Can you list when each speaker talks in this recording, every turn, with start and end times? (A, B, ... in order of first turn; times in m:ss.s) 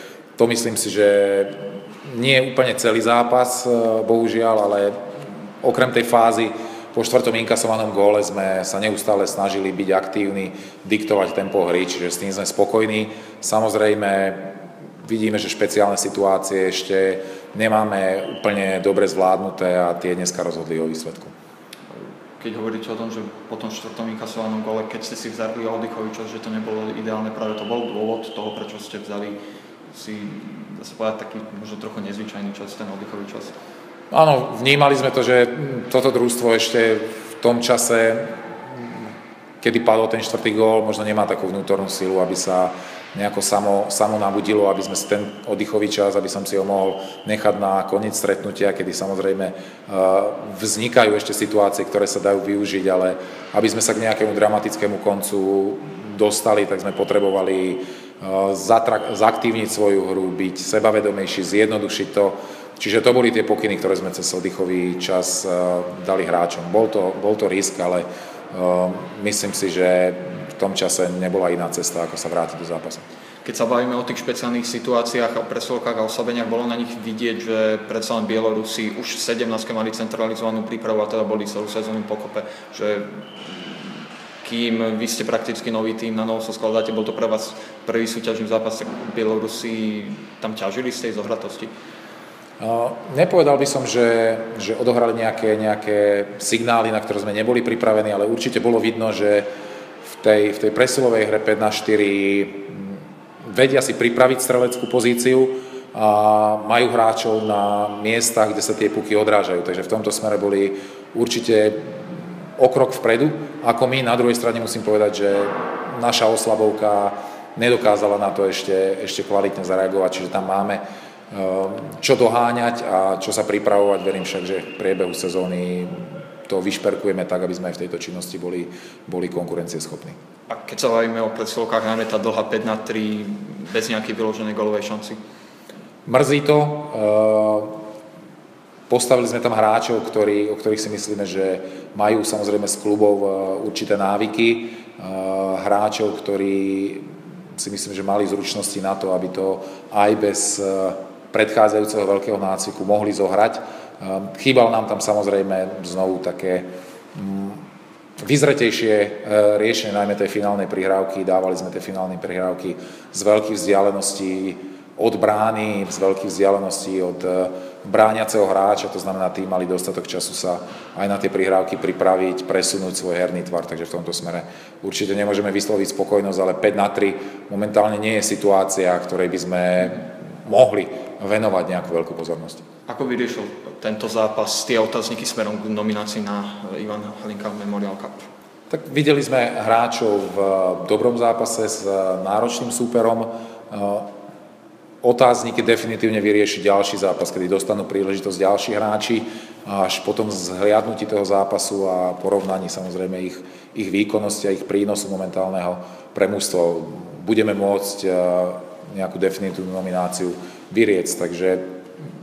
0:00.4-0:05.0 A
0:05.6-0:21.3 A
0:21.9-0:33.5 B
0:34.1-0:39.1 A
0:39.6-1:13.0 A
1:13.4-1:31.7 B
1:32.6-1:39.5 A
1:40.0-2:10.2 A
2:10.5-2:15.2 B
2:16.0-2:17.8 A
2:18.9-2:37.6 A
2:38.2-3:02.6 A
3:02.9-3:08.3 B
3:08.7-3:14.1 A
3:15.0-3:31.6 A